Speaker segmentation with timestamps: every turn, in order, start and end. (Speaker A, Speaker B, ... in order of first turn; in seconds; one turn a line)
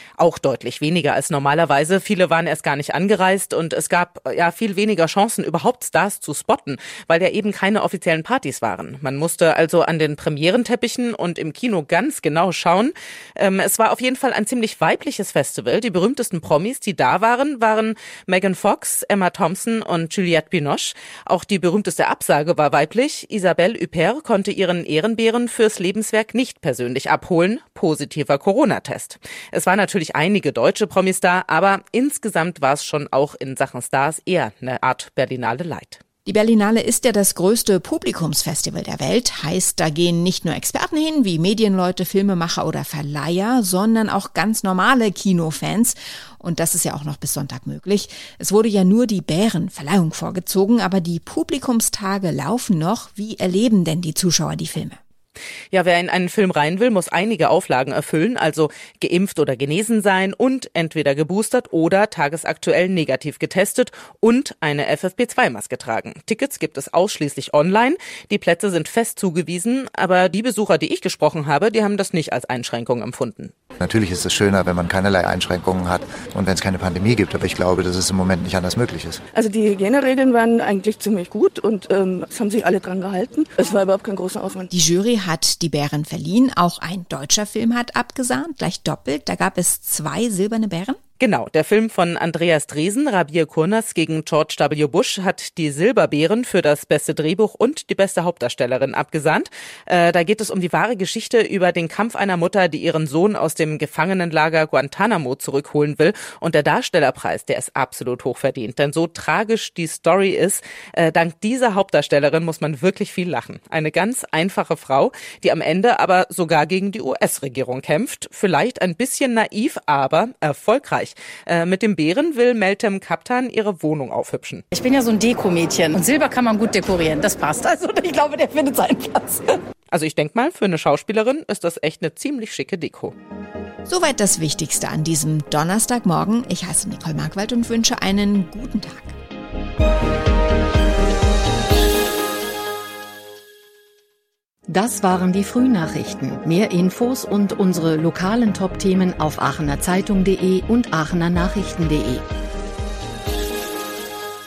Speaker A: 0.2-36.0
Speaker B: 36.2-55.0
Speaker A: 55.7-73.5
Speaker C: 73.8-79.2
Speaker D: 79.3-84.7
Speaker B: 84.7-91.0
Speaker A: 91.2-124.7
Speaker E: 124.7-129.4
Speaker A: 129.9-133.1
Speaker B: 133.8-139.1
Speaker F: 144.7-152.2